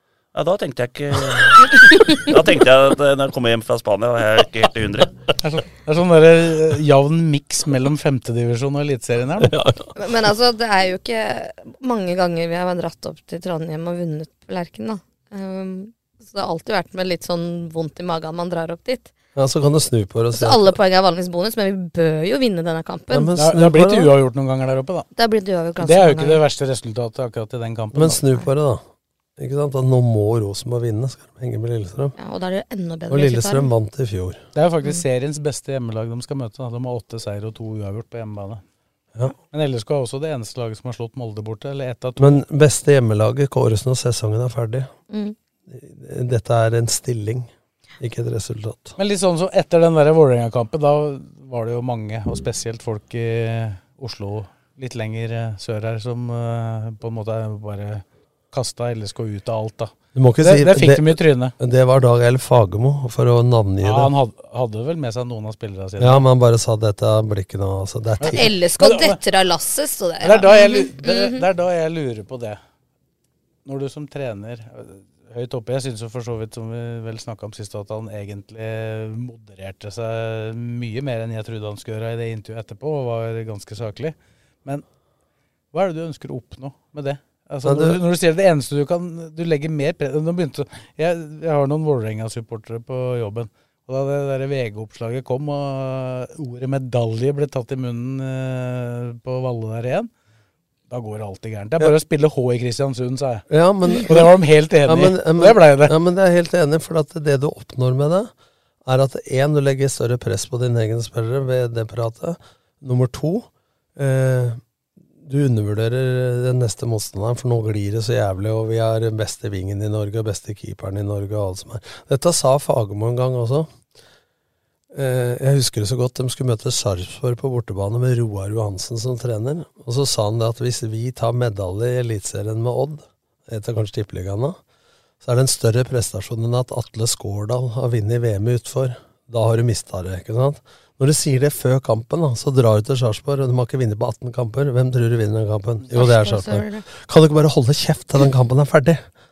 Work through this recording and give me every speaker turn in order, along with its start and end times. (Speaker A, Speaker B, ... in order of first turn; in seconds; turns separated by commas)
Speaker A: 0.3-5.1, Speaker B: 5.4-9.5, Speaker C: 9.4-9.9, Speaker D: 10.0-19.1, Speaker C: 19.4-20.8, Speaker D: 20.3-23.3, Speaker C: 23.1-24.1, Speaker B: 23.4-25.1, Speaker D: 25.2-26.4, Speaker B: 25.8-28.2, Speaker C: 27.9-28.8, Speaker C: 29.4-32.1, Speaker D: 32.2-33.7, Speaker C: 33.1-34.4, Speaker B: 34.5-38.6, Speaker B: 39.5-42.4, Speaker C: 42.2-44.9, Speaker D: 45.1-45.4, Speaker C: 45.7-49.0, Speaker B: 49.0-61.5, Speaker C: 60.1-64.1, Speaker B: 63.8-66.2, Speaker C: 66.0-68.5, Speaker B: 68.2-69.2, Speaker D: 68.3-71.4, Speaker B: 70.2-72.6, Speaker B: 73.7-84.8, Speaker B: 85.7-100.1, Speaker C: 87.6-88.0, Speaker B: 100.9-103.5, Speaker C: 103.5-108.3, Speaker B: 104.0-106.0, Speaker C: 108.8-114.6, Speaker C: 115.2-123.7, Speaker C: 124.9-134.6, Speaker C: 135.2-149.0, Speaker D: 145.9-146.9